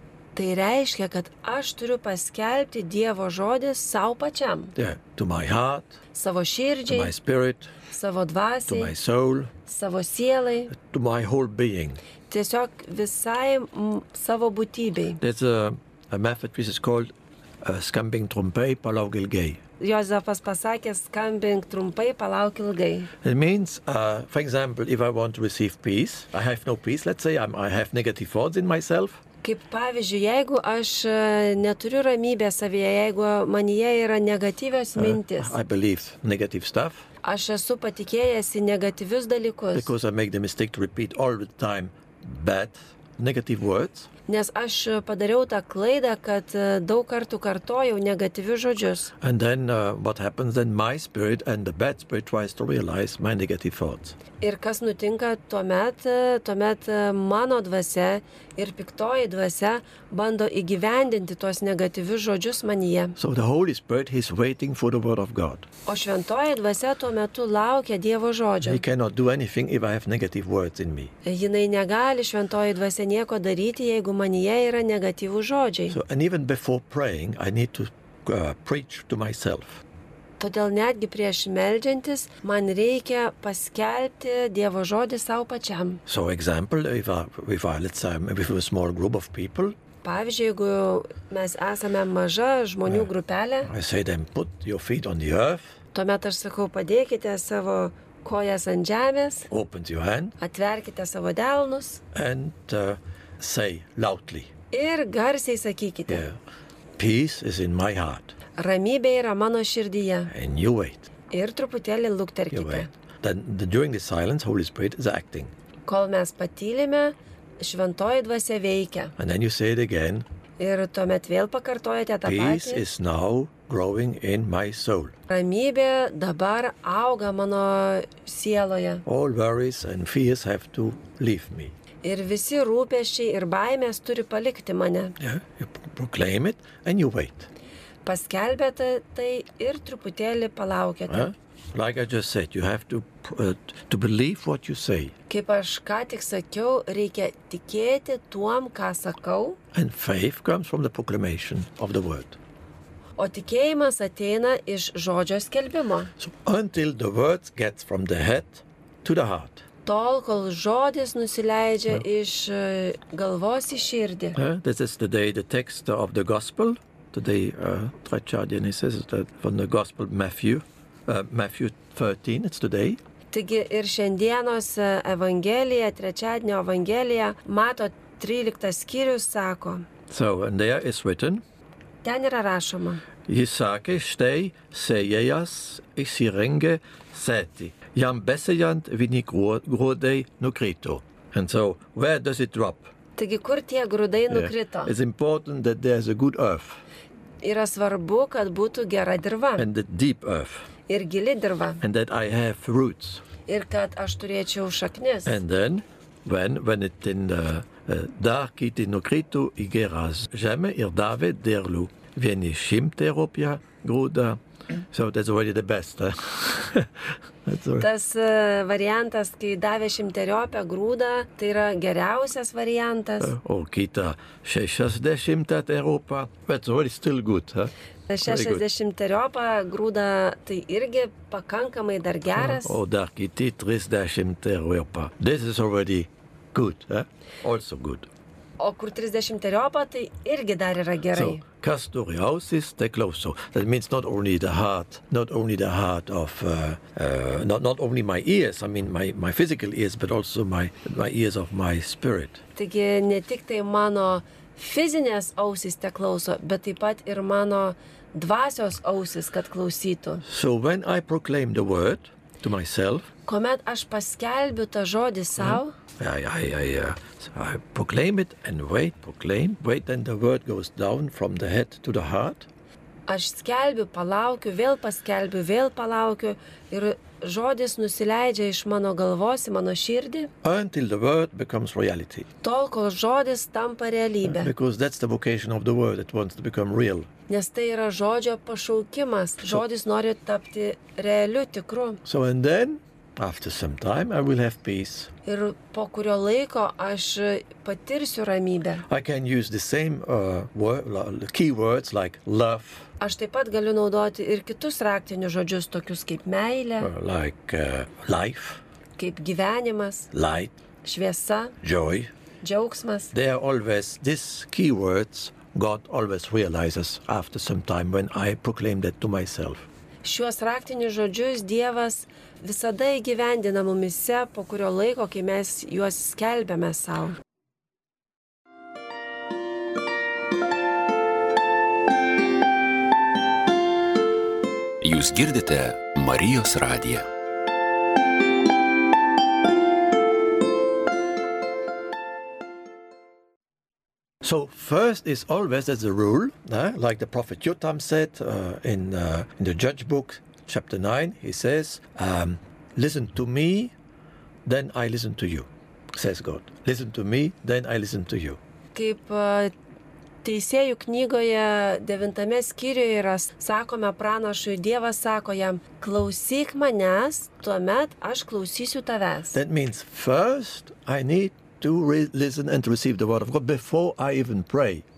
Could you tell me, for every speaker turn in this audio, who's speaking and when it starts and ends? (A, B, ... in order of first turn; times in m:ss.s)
0:00.4-0:04.8 A
0:04.8-0:06.0 B
0:06.1-0:07.1 A
0:06.9-0:07.7 B
0:07.9-0:08.9 A
0:08.7-0:09.5 B
0:09.7-0:10.7 A
0:10.7-0:12.0 B
0:12.3-0:15.2 A
0:15.2-0:19.6 B
0:19.8-0:23.1 A
0:23.2-0:29.2 B
0:29.4-0:35.5 A
0:35.0-0:37.1 B
0:37.2-0:39.9 A
0:39.7-0:44.1 B
0:44.3-0:49.1 A
0:49.2-0:54.2 B
0:54.4-1:03.2 A
1:03.2-1:05.7 B
1:05.9-1:08.8 A
1:08.6-1:11.1 B
1:11.2-1:16.0 A
1:15.9-1:19.8 B
1:20.4-1:26.0 A
1:26.1-1:29.8 B
1:30.0-1:33.7 A
1:33.6-1:35.8 B
1:35.9-1:39.5 A
1:39.5-1:40.4 B
1:40.4-1:42.0 A
1:42.1-1:44.5 B
1:44.7-1:46.2 A
1:46.1-1:46.4 B
1:47.0-1:48.4 B
1:48.6-1:50.3 A
1:50.3-1:51.1 B
1:51.3-1:52.9 A
1:52.5-1:55.5 B
1:55.9-1:59.1 A
1:59.2-2:00.2 B
2:00.6-2:02.8 A
2:02.2-2:05.1 B
2:05.3-2:09.0 A
2:09.1-2:11.7 B
2:12.0-2:15.2 A
2:15.2-2:17.5 B
2:18.0-2:21.3 A
2:21.1-2:25.1 B
2:25.3-2:29.6 A
2:29.7-2:32.4 B
2:33.2-2:36.1 A
2:36.2-2:39.6 B
2:39.8-2:44.4 A
2:44.4-2:53.0 B
2:53.3-2:59.9 A
3:00.1-3:01.4 B
3:02.0-3:03.0 A
3:03.3-3:12.9 B
3:13.2-3:14.9 A
3:14.3-3:16.8 B
3:17.4-3:19.7 A
3:19.6-3:20.7 B
3:20.9-3:21.8 A
3:21.8-3:23.2 B
3:23.5-3:25.4 A
3:25.2-3:37.9 B
3:37.8-3:43.3 A
3:43.2-3:48.6 B
3:48.1-3:52.8 A
3:52.4-3:58.1 B
3:58.6-4:01.4 A
4:01.1-4:12.4 B
4:12.6-4:20.2 A
4:20.2-4:23.1 B
4:23.3-4:25.8 A
4:25.4-4:32.5 B
4:33.1-4:40.3 A
4:40.4-4:42.3 B
4:42.4-4:44.5 A
4:44.2-4:47.1 B
4:47.3-4:52.0 A
4:52.0-4:55.1 B
4:55.2-4:58.8 A
4:58.9-5:02.9 B
5:03.0-5:06.9 A
5:06.8-5:08.6 B
5:09.0-5:10.1 A
5:10.1-5:10.5 B
5:10.8-5:11.6 A
5:11.6-5:12.1 B
5:12.4-5:13.1 A
5:13.1-5:19.7 B
5:20.0-5:27.2 A
5:34.8-5:37.1 C
5:44.2-5:53.7 B
5:54.4-5:58.4 B
5:58.8-5:59.5 A
6:00.2-6:09.4 A
6:09.3-6:14.8 B